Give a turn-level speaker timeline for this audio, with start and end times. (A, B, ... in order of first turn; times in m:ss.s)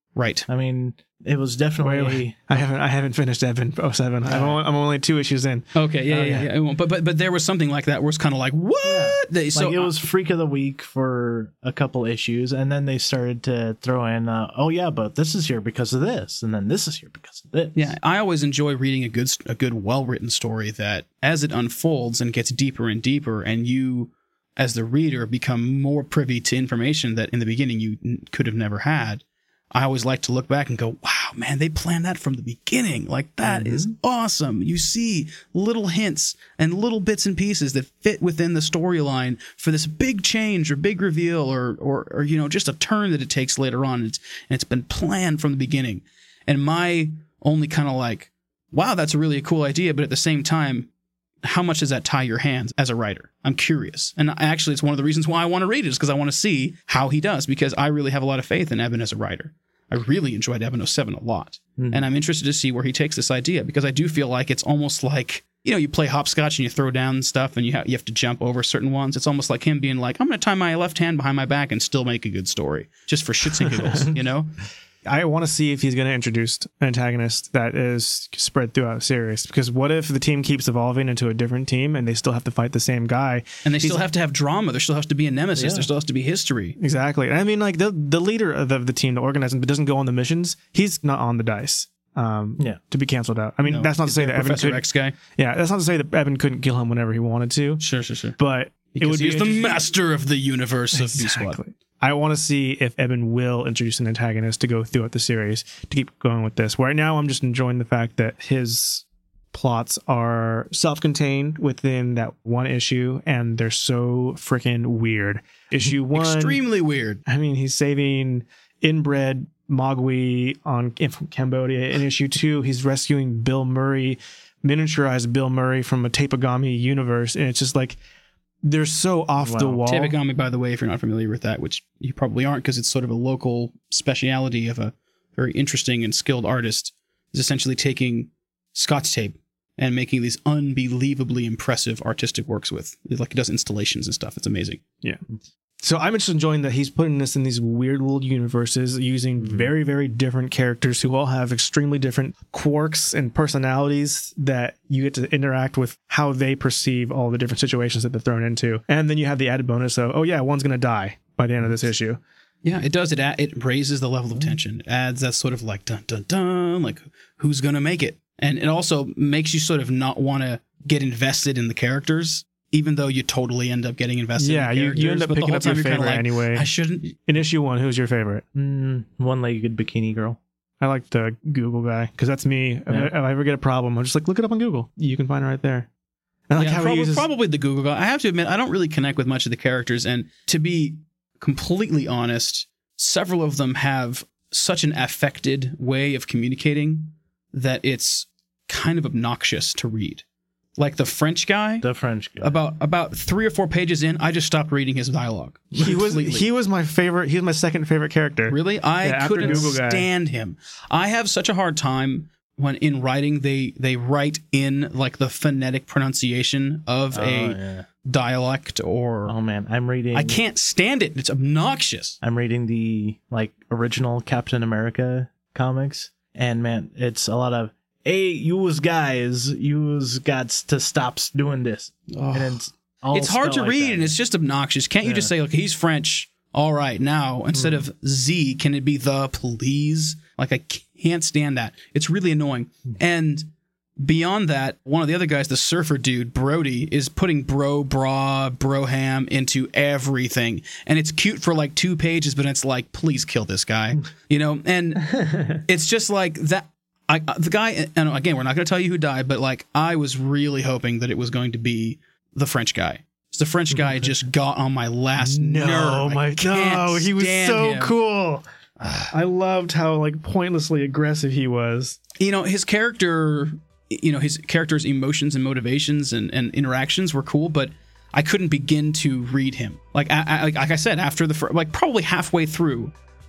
0:00.2-0:00.5 A
0:00.5-0:02.6 B
0:01.8-0:06.5 C
0:04.3-0:04.6 B
0:05.8-0:09.9 A
0:08.8-0:17.9 B
0:17.8-0:50.9 A
0:33.4-0:33.9 B
0:51.4-1:14.5 A
1:01.8-1:02.1 B
1:13.6-1:14.2 C
1:15.1-1:24.0 C
1:23.6-1:26.8 A
1:25.6-1:25.9 B
1:26.8-1:37.8 C
1:33.6-1:35.2 A
1:37.8-1:38.4 A
1:38.4-1:39.8 C
1:38.9-1:41.6 A
1:40.9-1:56.6 C
1:55.9-1:57.2 A
1:57.3-2:08.0 C
2:08.6-2:10.2 C
2:09.4-2:09.8 B
2:09.9-2:24.8 A
2:25.8-2:42.2 C
2:29.4-2:29.7 B
2:42.6-2:57.1 A
2:54.4-2:58.4 C
2:58.6-3:00.4 B
3:00.8-3:05.9 C
3:06.5-3:07.3 C
3:06.6-3:20.2 A
3:20.8-3:21.9 A
3:21.8-3:22.6 B
3:22.4-3:26.4 A
3:25.8-3:30.1 C
3:28.5-3:39.4 A
3:29.4-3:29.7 B
3:37.1-3:37.9 B
3:39.3-3:40.4 B
3:40.1-3:42.2 A
3:42.2-3:54.2 B
3:52.1-4:28.0 A
3:55.0-3:55.3 B
3:57.6-3:57.8 B
4:15.1-4:15.6 C
4:23.7-4:24.0 B
4:25.2-4:28.4 C
4:28.8-4:29.1 A
4:29.1-4:32.0 C
4:32.2-4:42.9 A